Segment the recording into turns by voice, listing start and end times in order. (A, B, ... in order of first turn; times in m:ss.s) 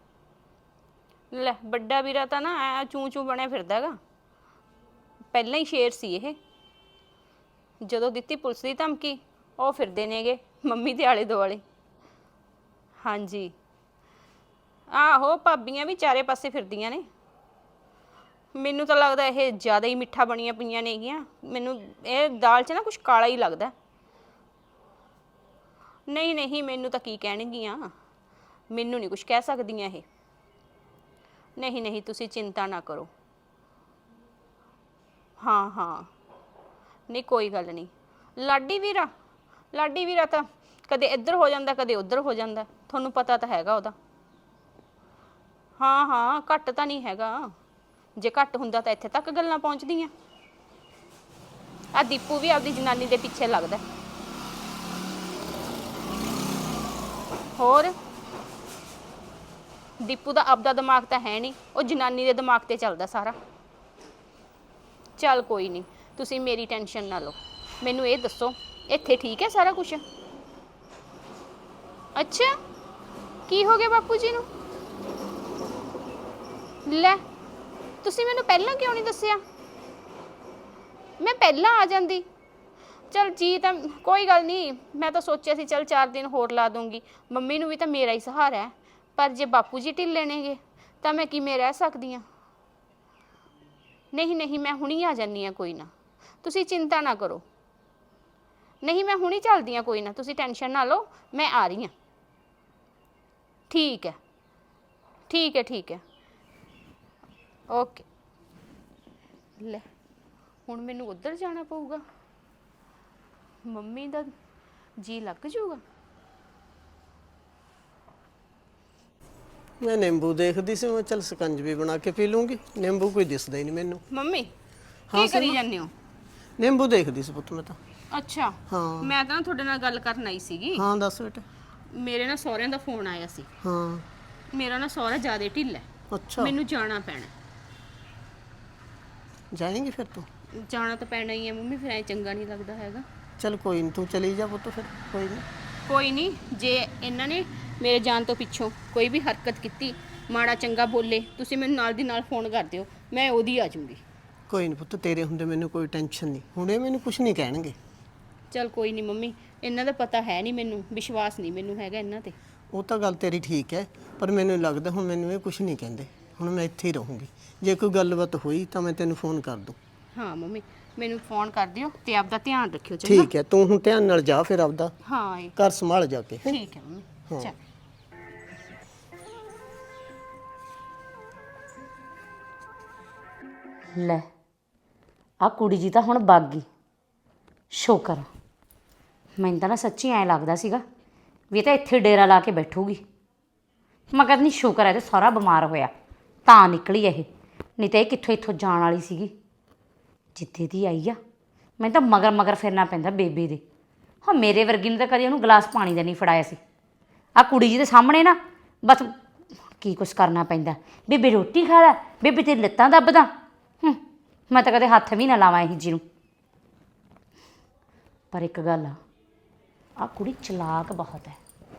0:01.3-0:04.0 A
0:05.3-0:06.4 A
0:07.8-0:11.6 A
0:13.0-0:13.5 A
0:14.9-0:17.1 A
0:18.6-0:23.7 A
0:26.1-0:27.9 A
0:28.7-0:30.0 A
0:31.6-0:33.1 A
0:35.4-0:36.1 A
0:37.1-0:39.1 A
0:39.7-0:43.9 A
0:45.8-0:47.5 A
0:48.2-0:50.1 A
0:52.0-0:53.8 A
0:57.6-0:57.9 A
1:00.0-1:03.4 A
1:05.2-1:10.0 A
1:12.2-1:12.5 A
1:13.5-1:14.4 A
1:16.9-1:17.2 A
1:18.0-1:19.4 A
1:21.2-1:22.2 A
1:23.1-1:32.2 A
1:34.1-1:35.9 A
1:36.4-1:37.4 A
1:38.8-1:41.9 A
1:43.7-1:44.2 A
1:45.3-1:46.0 A
1:47.7-1:48.0 A
1:49.6-1:49.8 A
1:50.7-1:52.0 A
1:53.7-1:54.3 A
1:55.0-1:55.8 A
1:59.8-2:04.0 B
2:04.1-2:04.5 A
2:05.1-2:05.6 B
2:05.1-2:05.9 A
2:06.6-2:07.8 B
2:08.1-2:10.9 A
2:08.7-2:09.1 B
2:10.7-2:11.4 B
2:12.0-2:13.5 A
2:13.6-2:14.0 B
2:14.5-2:17.3 A
2:16.1-2:16.6 B
2:19.5-2:20.3 B
2:20.6-2:23.0 A
2:23.4-2:25.4 B
2:25.9-2:34.0 A
2:34.5-2:37.8 B
2:38.5-2:42.4 A
2:42.7-2:49.8 B
2:50.1-2:53.3 A
2:53.0-2:54.9 B
2:55.0-2:55.6 A
2:55.6-2:56.6 B
2:56.4-2:57.5 A
3:04.0-3:04.2 C
3:05.4-3:06.7 C
3:07.7-3:08.3 C
3:09.4-3:10.8 C
3:11.5-3:13.0 C
3:14.1-3:15.9 C
3:16.5-3:17.3 C
3:17.8-3:19.3 C
3:20.4-3:21.2 C
3:21.8-3:23.6 C
3:24.2-3:26.6 C
3:27.4-3:29.1 C
3:29.8-3:33.3 C
3:34.5-3:36.0 C
3:38.3-3:39.0 C
3:40.0-3:41.4 C